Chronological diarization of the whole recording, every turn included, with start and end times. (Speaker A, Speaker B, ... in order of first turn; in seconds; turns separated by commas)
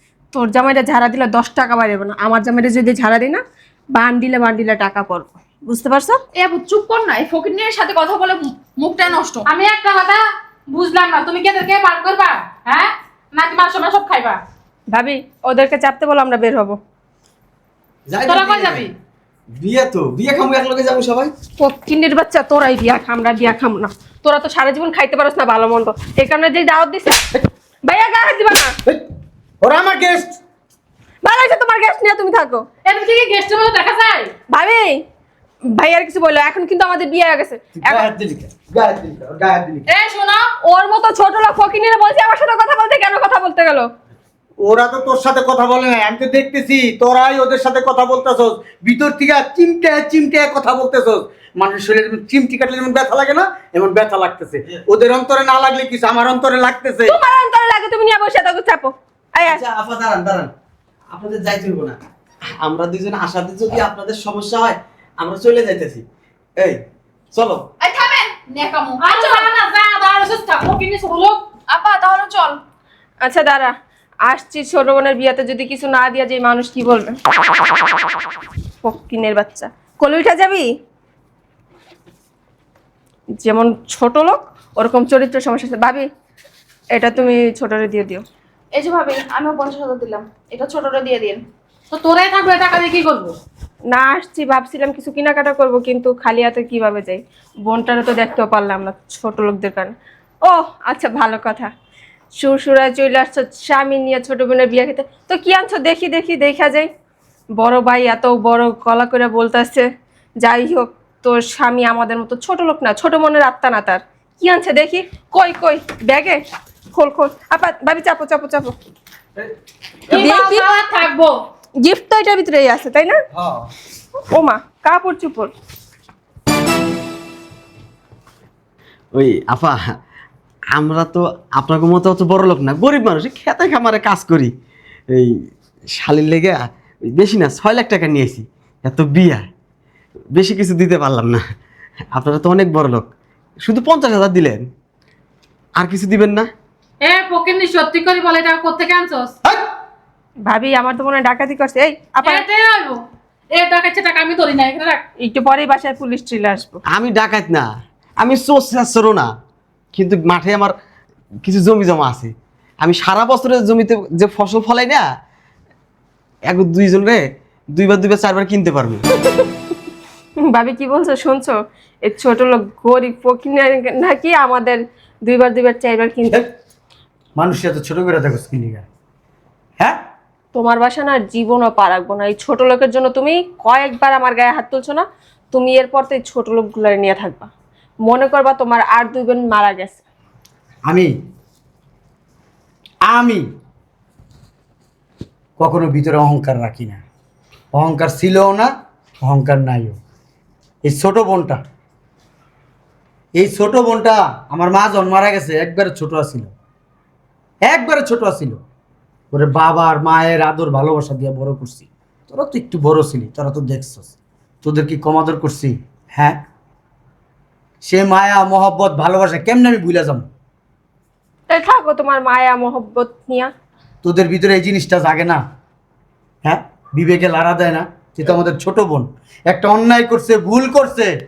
Speaker A: 0.3-3.4, Speaker A: 3.9-6.2, Speaker B: 6.3-9.5, Speaker C: 9.4-14.4, Speaker A: 14.9-16.8, Speaker D: 18.1-18.9, Speaker C: 18.2-18.9, Speaker D: 19.6-21.3, Speaker A: 21.6-27.2, Speaker A: 27.8-28.8, Speaker E: 29.6-30.4, Speaker A: 31.2-32.6, Speaker C: 32.8-34.3, Speaker A: 34.5-35.0, Speaker A: 35.7-38.1, Speaker E: 37.8-39.9, Speaker C: 39.9-40.5, Speaker A: 40.7-43.9, Speaker E: 44.6-57.2, Speaker A: 57.1-59.6, Speaker D: 59.5-60.5, Speaker D: 61.1-62.0, Speaker D: 62.6-66.0, Speaker D: 67.3-67.6, Speaker B: 67.8-69.4, Speaker C: 69.0-71.4, Speaker B: 71.7-72.6, Speaker A: 73.2-73.7, Speaker A: 74.3-77.2, Speaker A: 78.8-80.7, Speaker A: 83.4-86.1, Speaker A: 86.9-88.2, Speaker B: 88.7-91.4, Speaker C: 91.9-93.3, Speaker A: 93.9-101.7, Speaker A: 102.4-106.9, Speaker A: 107.6-109.8, Speaker A: 110.4-116.4, Speaker A: 116.9-118.7, Speaker C: 120.1-121.4, Speaker A: 120.1-120.7, Speaker A: 121.8-123.2, Speaker E: 123.3-123.6, Speaker A: 124.3-125.5, Speaker D: 129.1-129.9, Speaker D: 130.8-134.5, Speaker D: 135.9-139.5, Speaker D: 140.3-141.4, Speaker D: 142.1-143.1, Speaker D: 143.6-144.7, Speaker D: 145.8-146.5, Speaker C: 147.0-149.3, Speaker A: 150.5-152.4, Speaker C: 152.2-153.0, Speaker C: 153.5-155.0, Speaker A: 155.2-156.8, Speaker D: 156.9-157.7, Speaker D: 158.2-159.3, Speaker D: 159.9-160.7, Speaker D: 161.4-165.0, Speaker D: 166.5-167.2, Speaker D: 167.7-169.0, Speaker A: 170.4-176.4, Speaker E: 177.4-178.8, Speaker A: 180.5-187.5, Speaker A: 188.0-190.0, Speaker E: 193.1-193.4, Speaker E: 195.6-197.0, Speaker E: 197.7-198.7, Speaker E: 199.2-200.0, Speaker E: 200.8-201.6, Speaker E: 203.3-206.5, Speaker E: 207.7-208.6, Speaker E: 209.3-214.1, Speaker E: 214.6-216.4, Speaker E: 217.8-220.2, Speaker A: 221.5-223.5, Speaker E: 224.0-225.4, Speaker E: 226.4-231.1